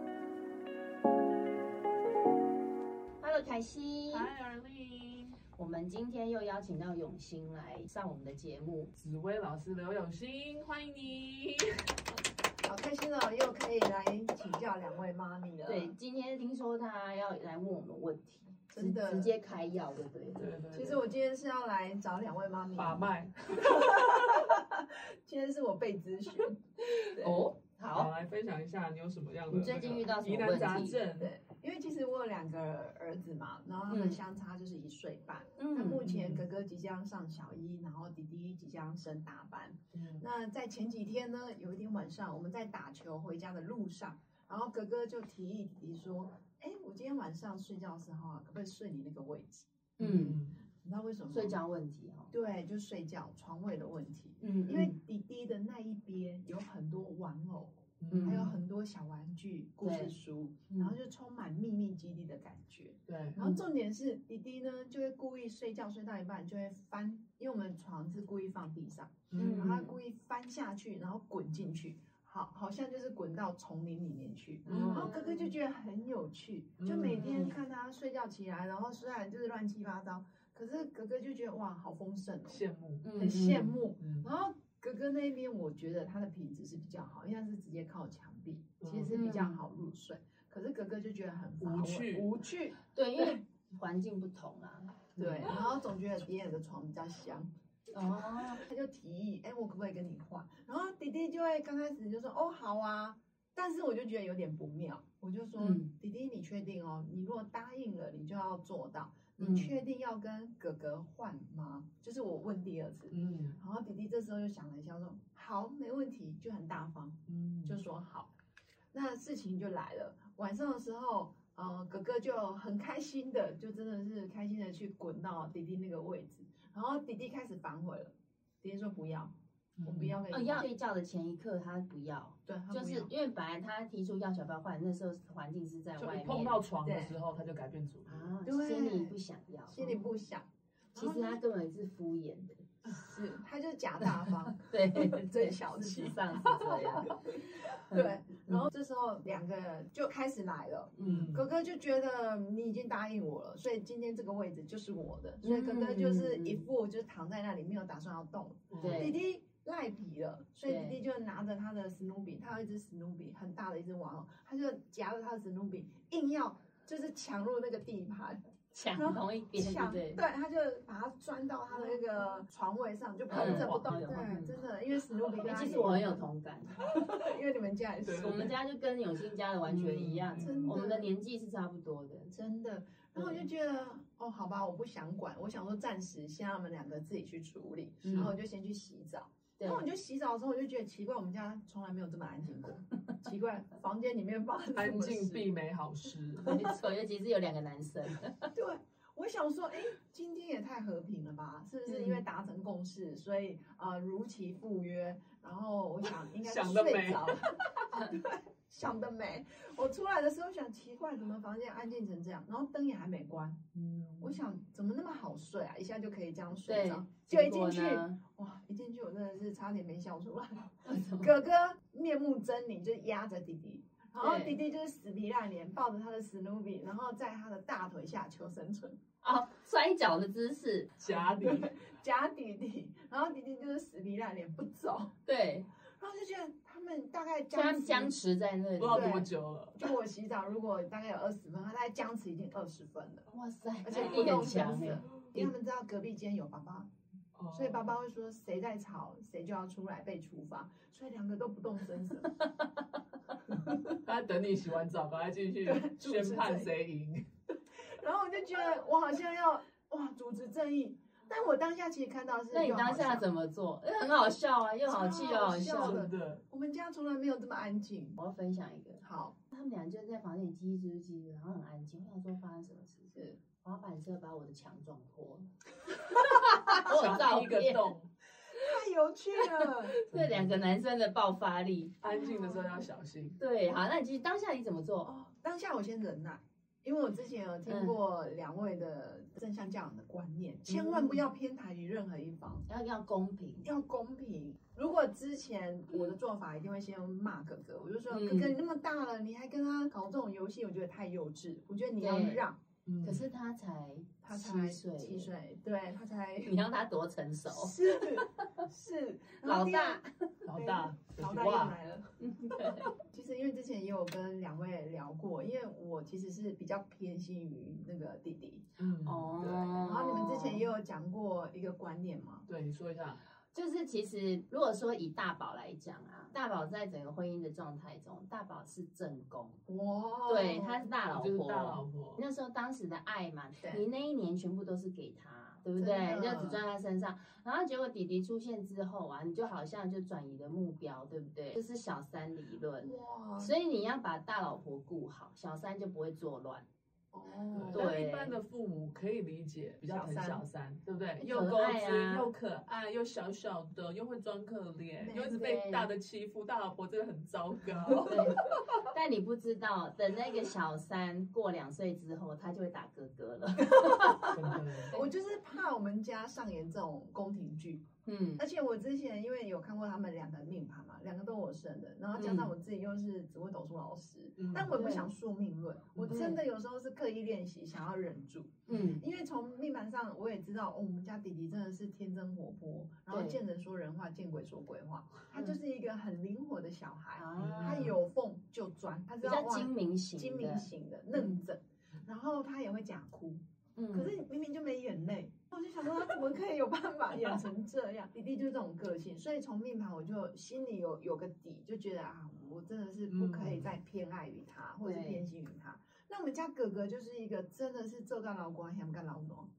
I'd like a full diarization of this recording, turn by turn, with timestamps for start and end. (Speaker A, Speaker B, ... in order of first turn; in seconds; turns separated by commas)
Speaker A: 3.2-4.3, Speaker B: 4.1-5.4, Speaker A: 5.5-8.9, Speaker B: 9.0-11.9, Speaker C: 12.6-15.9, Speaker A: 15.7-20.4, Speaker C: 18.7-19.3, Speaker B: 20.4-21.0, Speaker C: 20.7-27.5, Speaker B: 22.7-24.4, Speaker A: 27.1-28.1, Speaker B: 27.9-31.3, Speaker A: 29.5-31.0, Speaker C: 31.1-49.7, Speaker A: 33.9-34.2, Speaker A: 35.6-36.0, Speaker B: 36.0-36.4, Speaker B: 39.9-40.2, Speaker B: 50.0-50.6, Speaker A: 50.0-50.4, Speaker C: 50.8-51.6, Speaker A: 51.3-52.3, Speaker C: 52.3-82.6, Speaker A: 54.4-55.0, Speaker B: 58.0-58.5, Speaker A: 58.1-58.5, Speaker A: 59.8-60.1, Speaker A: 60.7-61.0, Speaker B: 63.1-63.5, Speaker B: 69.3-69.8, Speaker A: 69.3-70.0, Speaker B: 74.7-75.1, Speaker A: 74.7-75.5, Speaker B: 76.8-77.4, Speaker A: 77.2-77.5, Speaker B: 82.5-83.3, Speaker A: 83.0-83.8, Speaker C: 83.2-93.4, Speaker B: 84.0-84.3, Speaker B: 88.8-89.1, Speaker A: 89.1-89.6, Speaker B: 91.6-92.4, Speaker A: 92.9-95.5, Speaker B: 95.2-95.5, Speaker C: 95.2-97.5, Speaker A: 97.9-98.6, Speaker C: 98.1-118.3, Speaker A: 105.6-105.9, Speaker A: 109.4-109.8, Speaker B: 113.1-113.6, Speaker B: 117.3-117.8, Speaker C: 118.9-129.3, Speaker B: 129.8-130.2, Speaker C: 129.8-130.7, Speaker A: 130.3-136.6, Speaker C: 132.4-133.1, Speaker B: 136.0-138.3, Speaker C: 136.8-137.1, Speaker A: 138.1-140.0, Speaker C: 138.4-139.2, Speaker C: 139.7-141.4, Speaker A: 140.9-142.6, Speaker C: 142.8-168.4, Speaker A: 144.0-148.7, Speaker A: 150.9-151.3, Speaker B: 151.0-151.5, Speaker A: 155.4-156.7, Speaker B: 158.7-159.1, Speaker A: 158.8-159.2, Speaker A: 160.7-161.0, Speaker A: 168.7-170.2, Speaker C: 168.9-176.2, Speaker A: 173.3-174.6, Speaker B: 173.3-174.0, Speaker A: 175.4-176.8, Speaker C: 176.8-178.5, Speaker B: 178.0-178.5, Speaker A: 178.2-182.3, Speaker B: 179.7-180.7, Speaker C: 180.4-181.1, Speaker C: 182.3-195.5, Speaker A: 183.2-183.4, Speaker A: 188.0-188.3, Speaker B: 188.1-188.3, Speaker A: 189.6-189.8, Speaker B: 194.7-196.7, Speaker A: 196.4-198.5, Speaker C: 198.5-213.6, Speaker A: 201.9-202.2, Speaker B: 206.2-207.6, Speaker B: 213.7-214.3, Speaker C: 214.2-229.0, Speaker A: 216.7-218.2, Speaker A: 220.8-221.3, Speaker A: 224.2-224.6, Speaker A: 229.2-230.9, Speaker B: 231.0-231.7, Speaker C: 231.2-235.1, Speaker A: 235.2-235.7, Speaker C: 236.0-238.2, Speaker A: 237.5-239.2, Speaker B: 238.8-239.9, Speaker C: 238.9-243.3, Speaker A: 243.3-245.5, Speaker C: 243.8-246.9, Speaker B: 243.9-245.2, Speaker B: 247.3-247.8, Speaker C: 247.5-252.4, Speaker C: 253.5-254.0, Speaker B: 254.0-257.2, Speaker C: 255.6-256.7, Speaker C: 257.7-263.3, Speaker A: 262.5-266.0, Speaker C: 264.8-268.2, Speaker B: 265.6-266.4, Speaker A: 268.2-277.9, Speaker C: 269.0-269.4, Speaker C: 273.1-273.4, Speaker B: 276.7-278.1, Speaker C: 278.5-280.0, Speaker B: 280.1-280.5, Speaker A: 280.1-282.0, Speaker B: 282.0-283.4, Speaker C: 282.1-282.8, Speaker A: 283.4-285.1, Speaker C: 285.0-292.6, Speaker A: 287.7-288.0, Speaker A: 290.7-291.2, Speaker A: 292.7-293.7, Speaker C: 293.6-302.6, Speaker A: 298.1-298.6, Speaker A: 302.0-302.4, Speaker B: 302.9-303.2, Speaker A: 303.0-305.3, Speaker C: 304.2-306.6, Speaker A: 306.4-308.6, Speaker C: 307.5-318.6, Speaker A: 309.4-310.3, Speaker B: 310.4-311.8, Speaker A: 312.2-312.9, Speaker B: 318.8-319.8, Speaker A: 319.0-320.6, Speaker C: 319.8-322.4, Speaker B: 322.5-323.2, Speaker A: 323.5-329.6, Speaker C: 329.6-330.9, Speaker A: 330.2-346.6, Speaker B: 331.1-332.2, Speaker C: 335.8-336.6, Speaker C: 342.8-343.5, Speaker C: 347.1-347.9, Speaker B: 347.5-358.6, Speaker A: 347.7-348.4, Speaker C: 349.9-350.4, Speaker A: 351.2-352.3, Speaker C: 355.0-355.3, Speaker A: 355.2-355.9, Speaker C: 357.9-358.4, Speaker A: 358.0-365.1, Speaker C: 363.7-364.4, Speaker B: 364.3-364.9, Speaker C: 364.9-367.8, Speaker A: 368.0-368.4, Speaker C: 368.4-393.4, Speaker A: 372.1-372.5, Speaker B: 374.4-374.8, Speaker A: 374.7-375.1, Speaker B: 375.9-376.3, Speaker A: 376.1-376.4, Speaker A: 378.7-379.0, Speaker A: 383.1-383.4, Speaker A: 387.1-387.9, Speaker B: 387.4-387.9, Speaker A: 389.2-391.4, Speaker A: 393.8-394.2, Speaker C: 393.9-409.5, Speaker B: 403.1-403.7, Speaker A: 404.8-405.2